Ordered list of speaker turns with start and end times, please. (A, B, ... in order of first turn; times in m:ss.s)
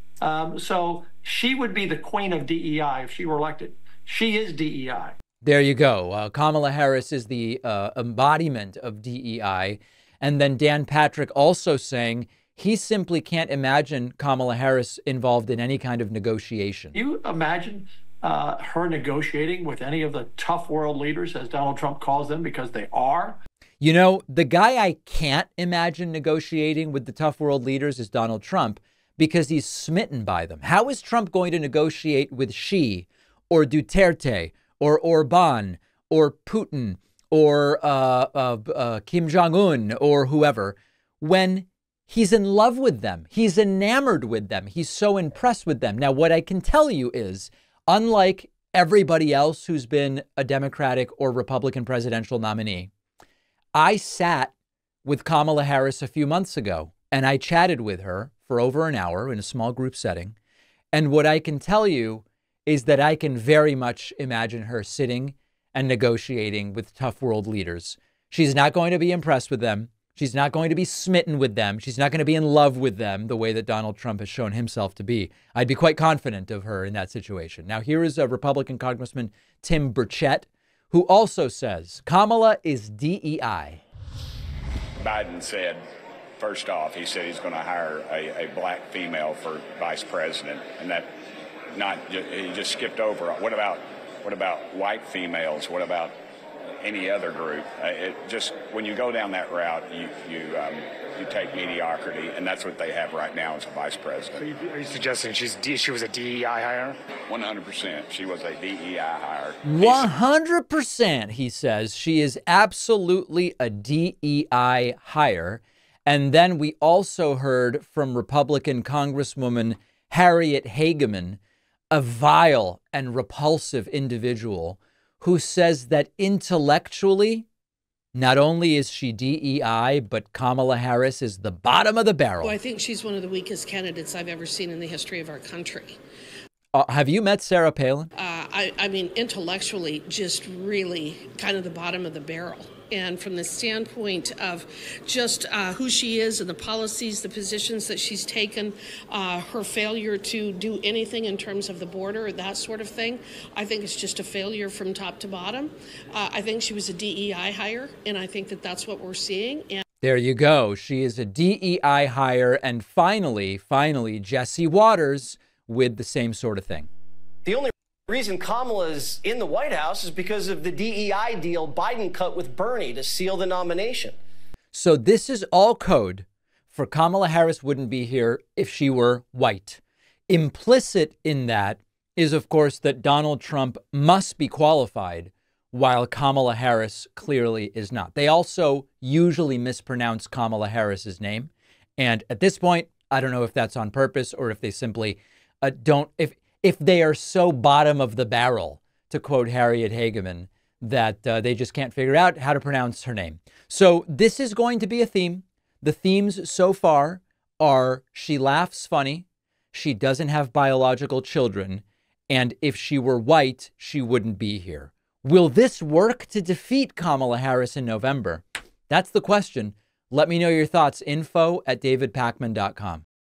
0:00.2-0:05.2 A
0:05.4-0:17.0 B
0:16.9-0:23.4 A
0:23.8-0:52.9 B
0:53.8-1:00.4 B
1:00.9-1:23.8 B
1:25.0-1:25.8 C
1:26.4-1:31.1 C
1:31.7-1:36.1 C
1:36.8-1:44.5 C
1:44.4-1:47.0 D
1:47.3-1:50.1 C
1:49.6-2:01.4 B
2:01.9-2:07.5 B
2:08.2-2:12.6 B
2:12.4-2:16.0 E
2:16.7-2:18.1 B
2:18.2-2:39.8 E
2:40.0-2:46.9 B
2:47.4-2:54.2 F
2:54.7-3:43.0 B